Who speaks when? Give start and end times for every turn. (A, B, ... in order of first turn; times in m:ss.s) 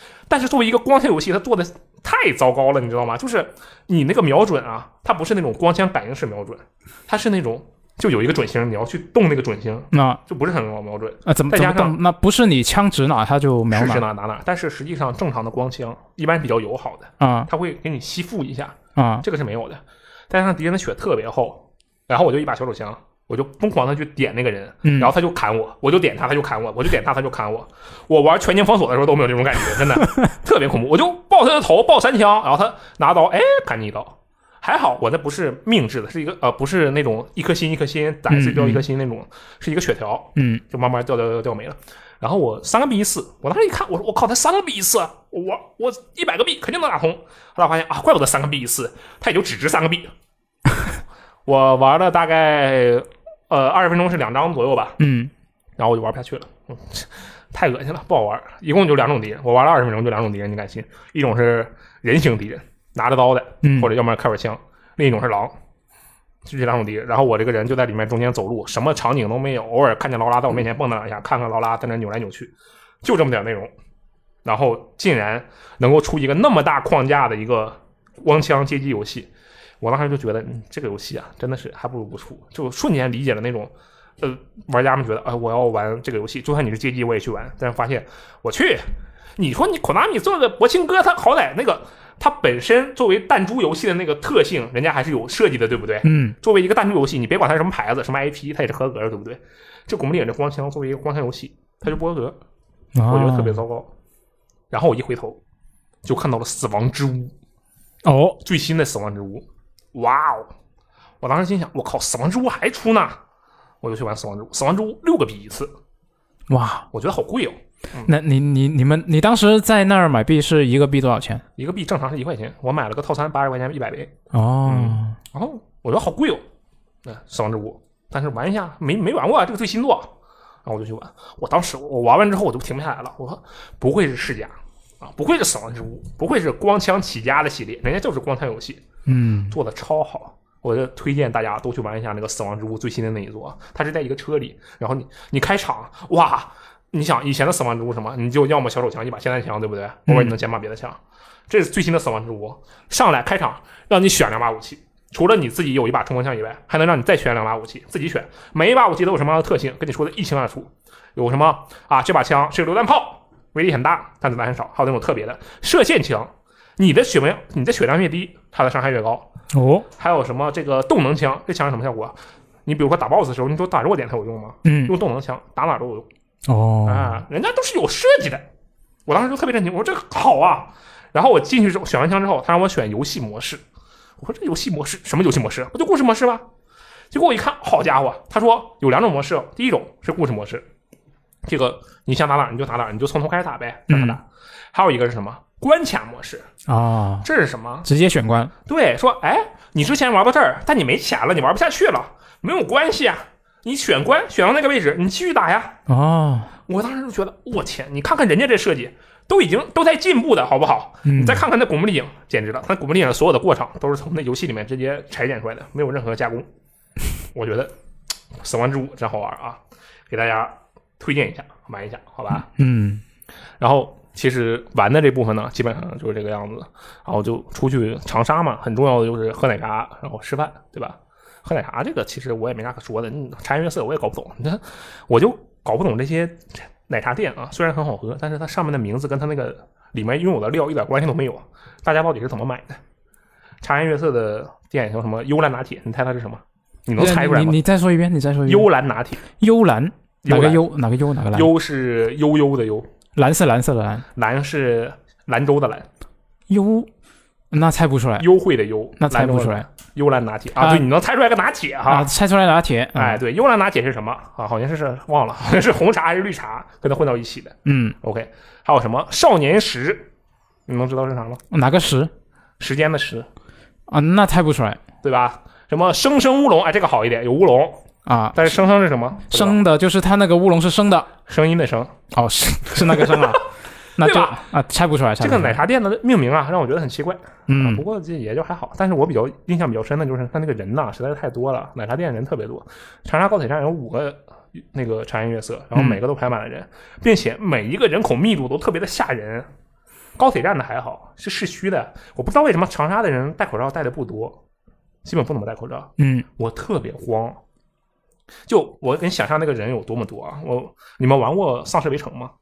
0:00.3-0:12.0 A
0:09.9-0:10.2 B
0:11.3-0:14.0 B
0:13.7-0:50.1 A
0:17.2-0:17.5 B
0:19.0-0:19.2 B
0:24.8-0:25.1 B
0:38.3-0:38.8 B
0:40.4-0:40.6 B
0:51.5-0:55.0 A
0:55.0-0:55.3 B
0:55.8-1:05.5 A
1:03.6-1:03.9 B
1:06.4-1:12.5 A
1:13.0-1:13.7 A
1:14.4-1:19.3 A
1:19.8-1:42.4 A
1:36.0-1:36.4 B
1:43.0-1:43.6 B
1:43.1-1:43.9 A
1:44.7-1:45.4 A
1:46.0-1:47.3 A
1:48.0-1:48.4 B
1:48.4-1:50.5 A
1:51.2-1:53.2 A
1:53.8-1:55.7 A
1:56.5-1:56.9 B
1:56.9-1:58.1 A
1:58.1-2:01.4 B
2:01.6-2:04.2 A
2:04.3-2:05.2 B
2:04.7-2:06.4 A
2:07.0-2:10.1 A
2:10.6-2:18.8 A
2:19.1-2:19.6 B
2:19.5-2:49.3 A
2:30.1-2:30.3 B
2:49.5-2:49.9 B
2:50.0-2:56.1 A
2:54.6-2:55.0 B
2:56.5-2:57.2 B
2:56.8-2:58.5 A
2:59.1-3:03.6 A
3:04.2-3:06.4 A
3:07.1-3:10.7 A
3:11.4-3:16.5 A
3:13.9-3:14.2 B
3:16.7-3:17.3 B
3:17.2-3:17.9 A
3:17.8-3:18.5 B
3:18.7-3:25.8 A
3:25.9-3:26.5 B
3:26.7-3:36.5 A
3:31.0-3:31.4 B
3:37.3-3:37.7 A
3:38.4-3:42.5 A
3:42.3-3:43.0 B
3:43.6-4:02.8 A
4:03.6-4:07.6 A
4:07.0-4:08.7 B
4:08.5-4:09.2 A
4:09.4-4:11.5 B
4:10.2-4:10.6 A
4:11.3-4:12.9 A
4:13.2-4:14.0 B
4:14.2-4:15.9 A
4:16.5-4:16.9 B
4:17.5-4:18.3 B
4:18.2-4:22.1 A
4:19.0-4:19.7 B
4:20.6-4:20.9 B
4:21.9-4:23.2 B
4:23.0-4:30.1 A
4:27.7-4:28.0 B
4:30.7-4:31.4 A
4:31.5-4:32.1 B
4:32.6-4:33.3 A
4:33.9-4:34.8 B
4:35.0-4:39.6 A
4:38.1-4:38.5 B
4:39.3-4:41.1 B
4:41.3-4:42.0 A
4:42.1-4:45.6 B
4:42.7-4:43.4 A
4:44.0-4:44.4 A
4:45.2-4:59.5 A
4:47.5-4:47.8 B
5:00.2-5:04.4 A
5:05.0-5:07.4 A
5:06.0-5:06.3 B
5:08.5-5:12.3 A